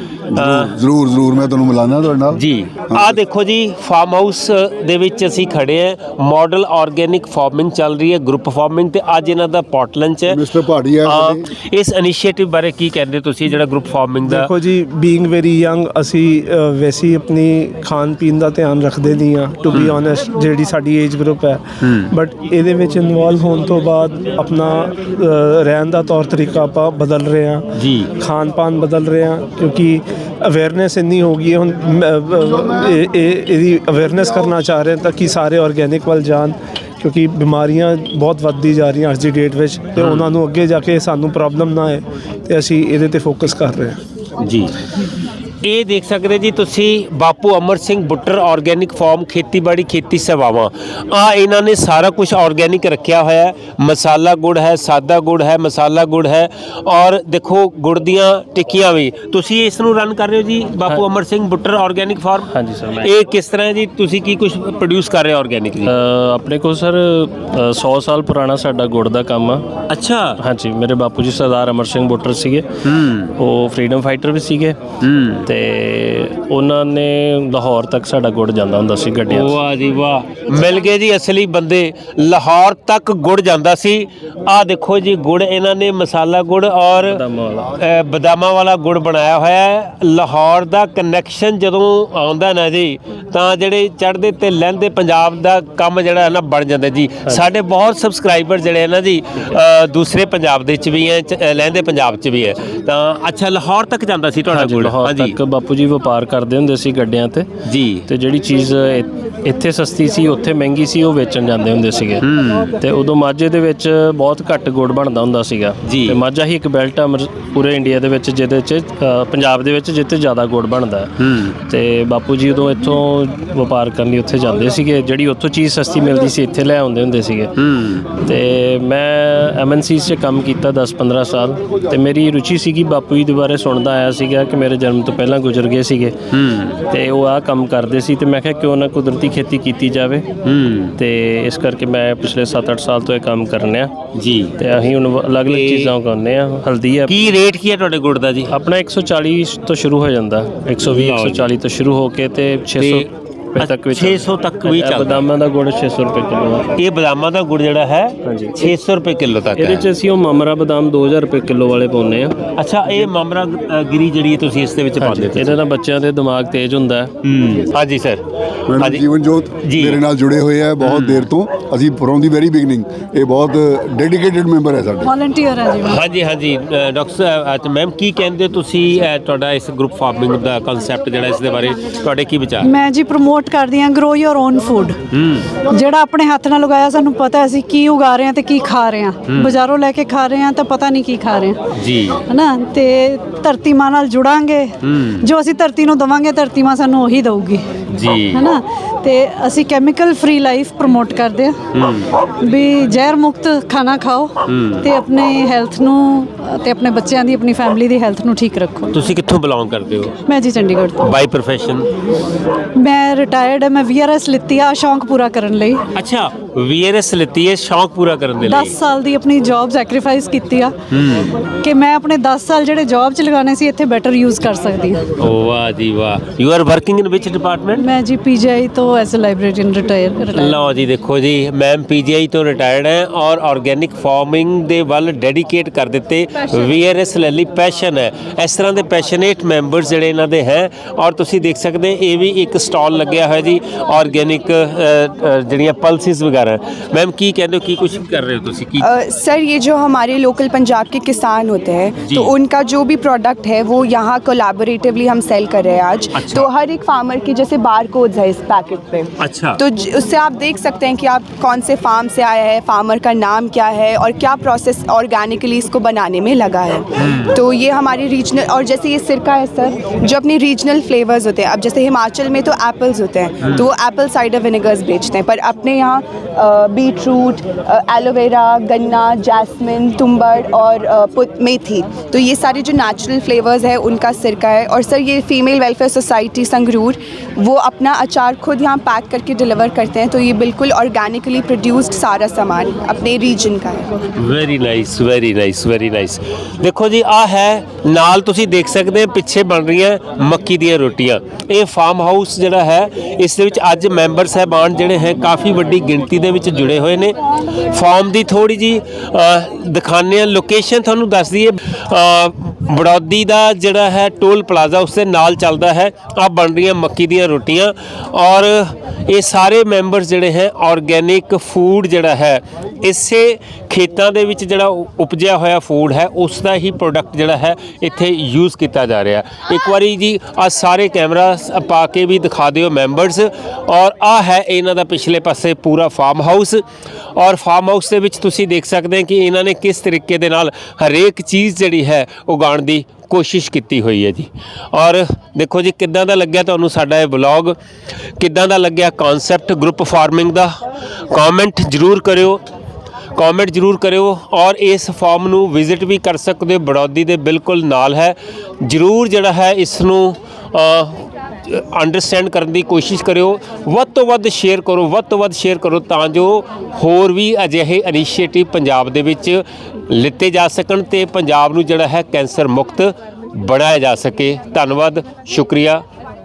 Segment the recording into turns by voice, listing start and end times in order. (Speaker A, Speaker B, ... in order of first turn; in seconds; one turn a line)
Speaker A: 0.3-2.4
Speaker B: 0.3-0.8
Speaker B: 2.3-10.4
Speaker A: 2.9-3.2
Speaker A: 10.3-11.4
Speaker B: 11.0-14.5
Speaker C: 14.2-27.6
Speaker B: 19.7-20.0
Speaker B: 21.8-22.1
Speaker B: 27.8-28.1
Speaker C: 28.2-44.0
Speaker B: 40.0-40.3
Speaker B: 44.4-44.8
Speaker B: 45.6-62.5
Speaker D: 62.5-63.1
Speaker B: 63.0-65.9
Speaker D: 65.8-69.7
Speaker B: 69.9-70.4
Speaker D: 70.4-72.6
Speaker B: 72.8-73.4
Speaker D: 73.4-74.8
Speaker B: 75.0-75.5
Speaker D: 75.5-79.6
Speaker B: 79.3-105.4
Speaker D: 87.0-87.7
Speaker D: 104.5-107.5
Speaker B: 107.6-108.0
Speaker D: 108.1-112.2
Speaker B: 112.2-112.7
Speaker D: 112.8-121.1
Speaker B: 115.8-116.2
Speaker B: 121.2-121.5
Speaker D: 121.7-127.5
Speaker B: 127.6-128.1
Speaker D: 128.2-136.1
Speaker B: 136.3-136.8
Speaker D: 136.9-140.3
Speaker B: 140.4-141.0
Speaker D: 141.0-143.9
Speaker B: 144.1-144.6
Speaker D: 144.6-147.2
Speaker B: 145.5-145.9
Speaker B: 147.1-148.5
Speaker D: 148.5-156.7
Speaker B: 150.8-151.5
Speaker B: 152.8-155.2
Speaker B: 156.8-159.9
Speaker D: 158.2-158.8
Speaker D: 159.6-162.4
Speaker B: 162.6-165.6
Speaker D: 165.0-167.1
Speaker B: 167.2-168.2
Speaker A: 168.7-175.1
Speaker B: 168.8-169.0
Speaker B: 169.6-170.0
Speaker B: 170.8-171.3
Speaker E: 175.0-176.0
Speaker B: 175.8-182.7
Speaker E: 182.6-185.0
Speaker B: 185.1-185.5
Speaker E: 185.6-191.6
Speaker B: 189.2-189.6
Speaker B: 191.7-192.2
Speaker E: 192.3-197.6
Speaker B: 194.8-195.3
Speaker B: 197.9-198.5
Speaker E: 198.2-201.6
Speaker B: 201.7-202.2
Speaker E: 202.4-208.9
Speaker B: 204.4-204.9
Speaker B: 208.9-210.2
Speaker E: 210.2-211.1
Speaker B: 211.0-211.9
Speaker E: 212.8-215.8
Speaker B: 215.9-218.8
Speaker E: 218.4-220.7
Speaker B: 220.9-221.4
Speaker E: 221.6-225.0
Speaker B: 225.2-227.9
Speaker E: 227.8-230.6
Speaker B: 230.3-248.9
Speaker F: 248.8-293.9
Speaker B: 252.0-252.3
Speaker B: 256.1-256.5
Speaker B: 259.2-259.6
Speaker B: 267.0-267.4
Speaker B: 273.4-273.7
Speaker B: 294.2-336.6
Speaker B: 337.2-347.6
Speaker B: 348.2-350.5
Speaker B: 351.1-352.4
Speaker B: 353.2-375.8